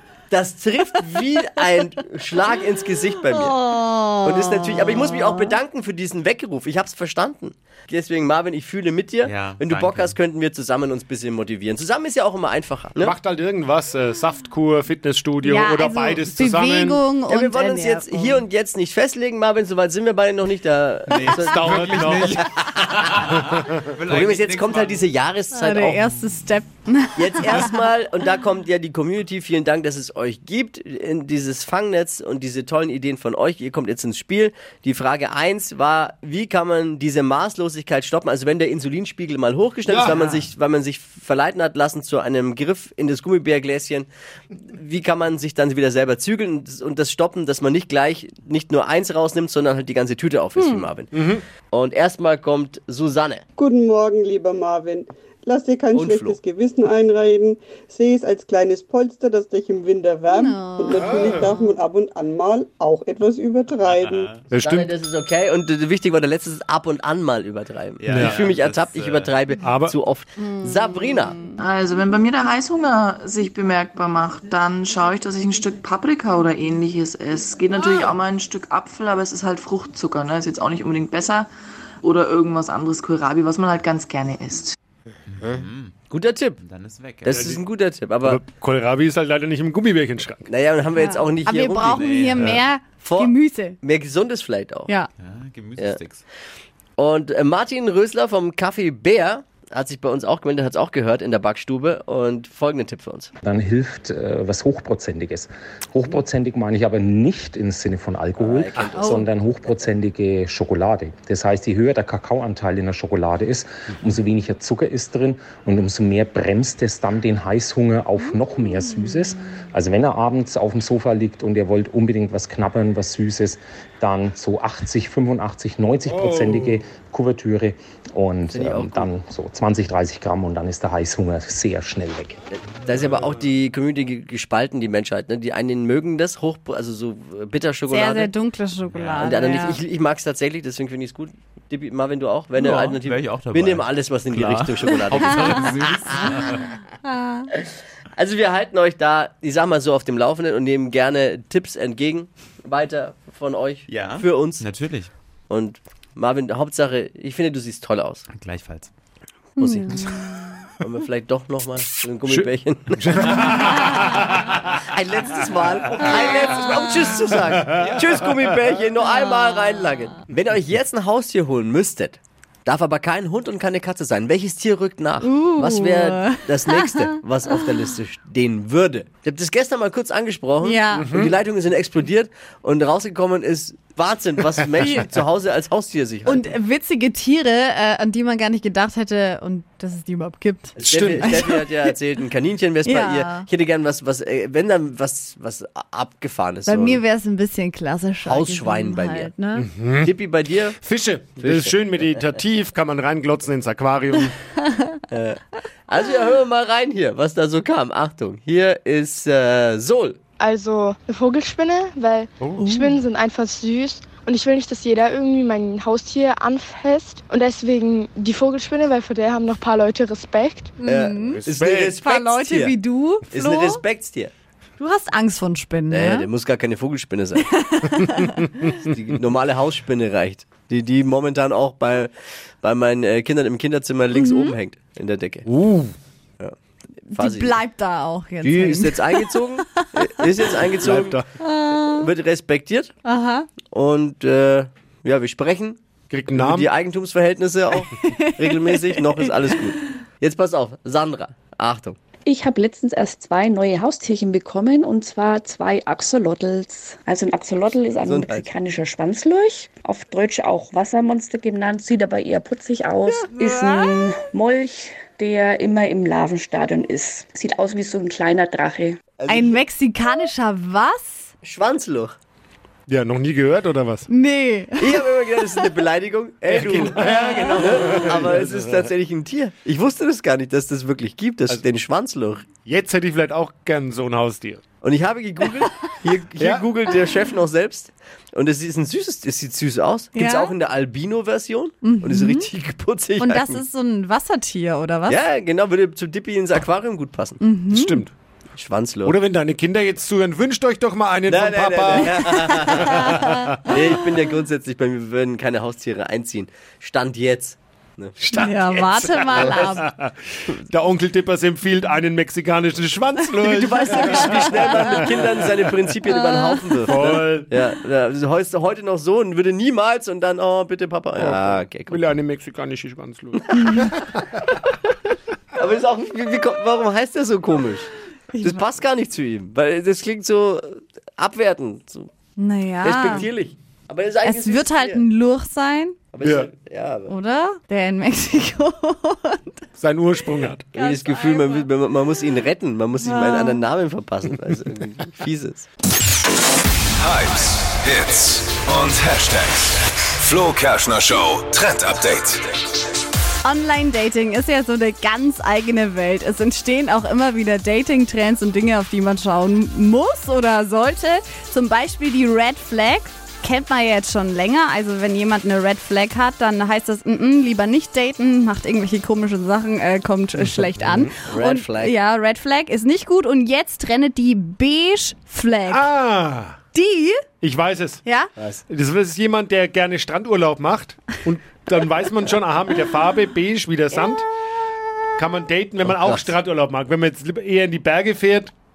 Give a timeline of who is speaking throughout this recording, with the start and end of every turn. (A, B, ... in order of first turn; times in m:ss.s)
0:00.3-0:13.1 A
0:03.4-0:05.5 B
0:09.2-0:10.2 C
0:13.0-0:17.1 D
0:15.4-0:18.4 B
0:17.3-0:23.3 A
0:21.1-0:25.1 C
0:21.4-0:22.4 D
0:24.0-0:26.1 A
0:25.5-0:27.8 B
0:27.2-0:44.1 A
0:39.9-0:40.4 D
0:44.7-0:53.4 A
0:50.6-0:50.9 B
0:51.1-0:51.4 D
0:53.6-1:04.3 E
0:55.9-0:56.4 A
1:00.3-1:01.7 B
1:00.9-1:01.5 D
1:03.8-1:04.5 C
1:04.5-1:04.9 D
1:04.6-1:11.4 A
1:08.0-1:09.4 C
1:08.1-1:08.4 D
1:09.6-1:10.0 D
1:10.4-1:11.6 B
1:11.6-1:21.5 F
1:22.0-1:24.8 F
1:25.3-1:26.0 C
1:25.4-1:26.6 A
1:26.6-1:27.4 C
1:27.2-1:28.4 A
1:27.3-1:27.6 D
1:28.2-1:30.5 D
1:30.5-1:32.1 A
1:31.0-1:33.8 B
1:31.8-1:32.6 C
1:33.0-1:34.9 A
1:35.2-1:36.2 C
1:37.0-1:43.3 A
1:43.4-2:12.4 G
1:48.4-1:49.3 A
1:49.0-1:49.2 B
1:58.8-1:59.2 B
2:06.1-2:06.8 D
2:08.5-2:09.1 A
2:12.5-2:18.3 A
2:17.9-2:19.8 B
2:18.9-2:19.3 C
2:19.2-2:26.5 A
2:22.6-2:26.6 C
2:27.1-2:27.5 B
2:28.2-2:34.6 A
2:33.9-2:35.1 C
2:35.5-2:38.2 A
2:38.3-2:38.9 C
2:39.6-2:40.0 A
2:39.6-2:40.3 B
2:40.8-2:44.0 A
2:42.3-2:44.4 D
2:44.8-3:06.5 A
2:47.5-2:47.9 D
2:47.8-2:48.2 C
2:55.2-2:57.6 B
3:00.6-3:01.1 B
3:00.9-3:01.3 D
3:06.3-3:11.9 B
3:10.8-3:11.4 D
3:10.8-3:17.0 A
3:12.9-3:13.5 B
3:16.7-3:19.7 B
3:18.2-3:19.3 A
3:19.6-3:20.1 D
3:20.0-3:20.8 A
3:20.8-3:24.4 D
3:21.4-3:21.7 A
3:25.1-3:30.2 A
3:30.4-3:40.8 H
3:32.4-3:32.8 D
3:32.6-3:33.0 B
3:40.8-3:41.4 B
3:40.8-3:42.8 A
3:41.3-3:42.0 D
3:42.0-3:43.8 B
3:43.3-3:44.3 A
3:44.8-3:46.3 B
3:45.9-3:47.5 A
3:47.4-3:48.6 B
3:48.8-3:55.5 A
3:54.1-3:54.6 B
3:55.4-3:55.9 D
3:57.1-3:59.9 B
3:57.2-3:57.6 A
3:58.4-4:01.2 A
4:00.8-4:01.3 D
4:01.4-4:02.1 B
4:01.7-4:02.9 A
4:03.0-4:03.5 B
4:03.7-4:05.8 A
4:06.1-4:06.7 D
4:06.3-4:12.0 A
4:08.1-4:09.3 B
4:12.3-4:29.0 I
4:18.0-4:18.5 A
4:23.1-4:24.0 B
4:29.2-4:29.6 A
4:29.3-4:31.3 B
4:31.4-4:32.2 A
4:32.9-4:34.1 D
4:34.1-4:35.7 B
4:34.8-4:42.5 A
4:36.5-4:38.9 D
4:42.6-4:44.6 D
4:44.8-4:53.6 A
4:46.4-4:46.7 D
4:50.2-4:50.5 B
4:51.8-4:52.5 B
4:53.2-4:55.2 B
4:55.1-4:57.4 A
4:57.4-4:58.0 B
4:57.7-4:58.1 D
4:58.6-4:59.2 A
4:59.0-5:03.8 D
5:01.3-5:08.2 A
5:02.2-5:03.8 B
5:08.2-5:10.1 D
5:08.4-5:09.9 B
5:10.7-5:15.4 D
5:13.4-5:22.1 A
5:16.8-5:17.5 D
5:21.2-5:23.4 D
5:23.4-5:24.0 A
5:23.5-5:23.9 B
5:25.6-5:27.9 A
5:28.3-5:28.7 B
5:28.4-5:32.1 A
5:32.4-5:33.3 B
5:32.8-5:35.0 A
5:34.2-5:36.0 B
5:36.1-5:37.1 A
5:36.2-5:36.5 D
5:37.1-5:39.5 B
5:39.8-5:40.7 D
5:40.7-5:41.7 B
5:40.7-5:45.7 A
5:43.0-5:43.6 B
5:47.0-5:52.5 J
5:53.4-6:15.9 B
6:10.5-6:11.1 D
6:11.2-6:12.0 A
6:15.7-6:16.6 D
6:16.7-6:17.3 B
6:17.4-6:18.0 D
6:18.0-6:18.3 B
6:18.4-6:18.6 A
6:18.7-6:24.2 D
6:25.2-6:28.5 D
6:25.8-6:26.3 A